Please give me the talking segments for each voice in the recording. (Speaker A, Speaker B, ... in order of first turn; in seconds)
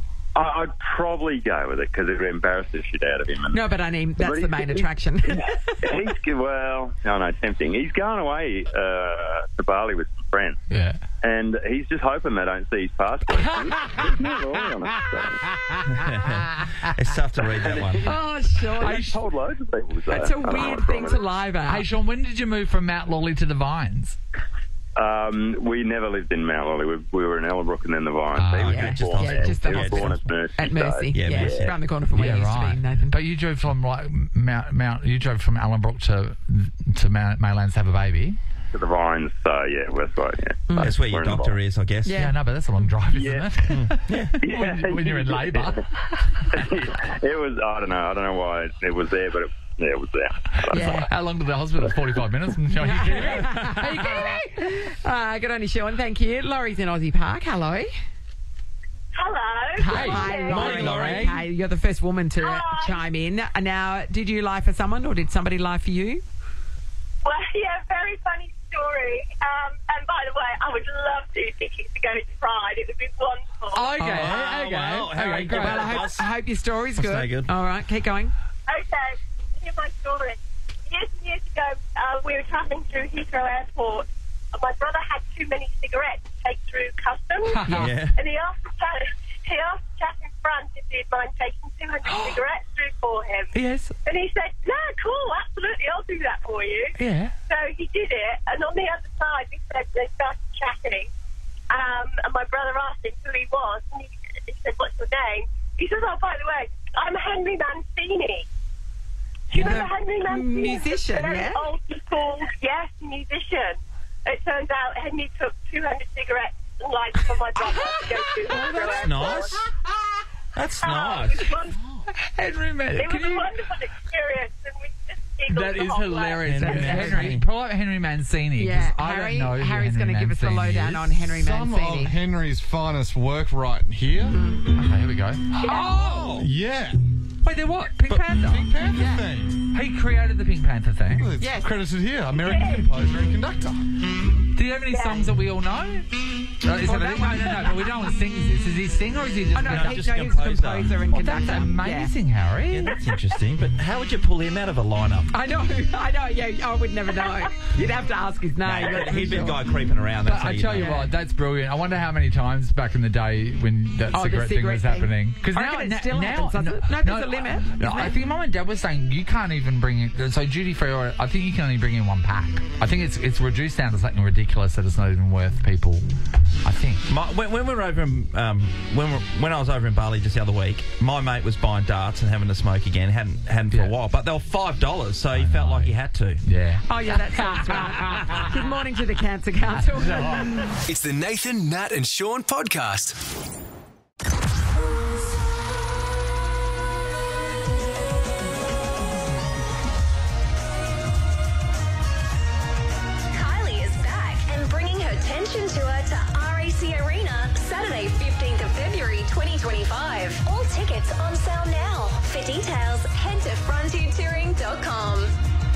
Speaker A: 0.3-3.6, 4.2-10.6, 11.2-15.4, 17.6-17.9, 18.8-21.3, 24.9-31.7, 38.7-41.6, 43.1-43.5, 44.4-45.8, 46.5-50.9
Speaker B: 3.5-5.6, 18.0-19.1, 20.1-21.8, 28.6-33.1, 40.7-41.0, 42.0-42.3, 50.7-51.1, 52.7-57.9, 59.8-66.2, 74.0-74.4, 75.4-78.3, 109.5-111.7, 118.5-118.9, 126.6-127.4, 128.6-132.1, 134.3-134.7, 135.7-136.0, 138.9-139.2, 141.4-141.7, 146.8-147.8, 149.5-152.1, 155.3-159.7, 160.7-161.1, 164.1-168.1, 186.9-190.6
Speaker C: 10.7-11.0, 13.3-15.9, 18.8-19.2, 21.7-24.2, 28.4-29.6, 32.1-38.4, 42.1-45.8, 50.6-54.3, 59.8-61.4, 73.7-76.1, 87.5-87.9, 92.1-92.3, 93.5-93.9, 97.0-97.3, 122.3-123.5, 125.5-131.4, 134.7-135.8, 137.4-138.7, 139.7-141.3, 144.5-146.1, 146.6-150.3, 151.1-153.0, 160.2-176.0, 176.6-177.0, 185.3-185.9, 186.4-188.5, 189.9-190.7
Speaker D: 15.9-18.0, 28.5-30.2, 31.1-31.8, 40.8-42.2, 43.7-44.3, 60.3-61.4, 74.1-76.3, 77.0-77.5, 87.7-88.1, 118.7-119.6, 120.5-121.5, 126.4-127.4, 135.7-136.5, 149.5-150.9, 152.7-155.3, 158.6-161.0, 177.1-186.4
Speaker E: 59.1-60.5, 62.4-62.9, 67.2-74.0, 78.7-87.7, 88.2-96.9, 97.5-101.1, 101.7-108.5, 109.5-119.5, 120.8-121.7, 122.9-126.4
Speaker F: 131.4-134.3, 136.3-137.0, 138.4-139.6, 141.1-143.8
Speaker G: 190.8-193.2
Speaker H: 203.3-215.3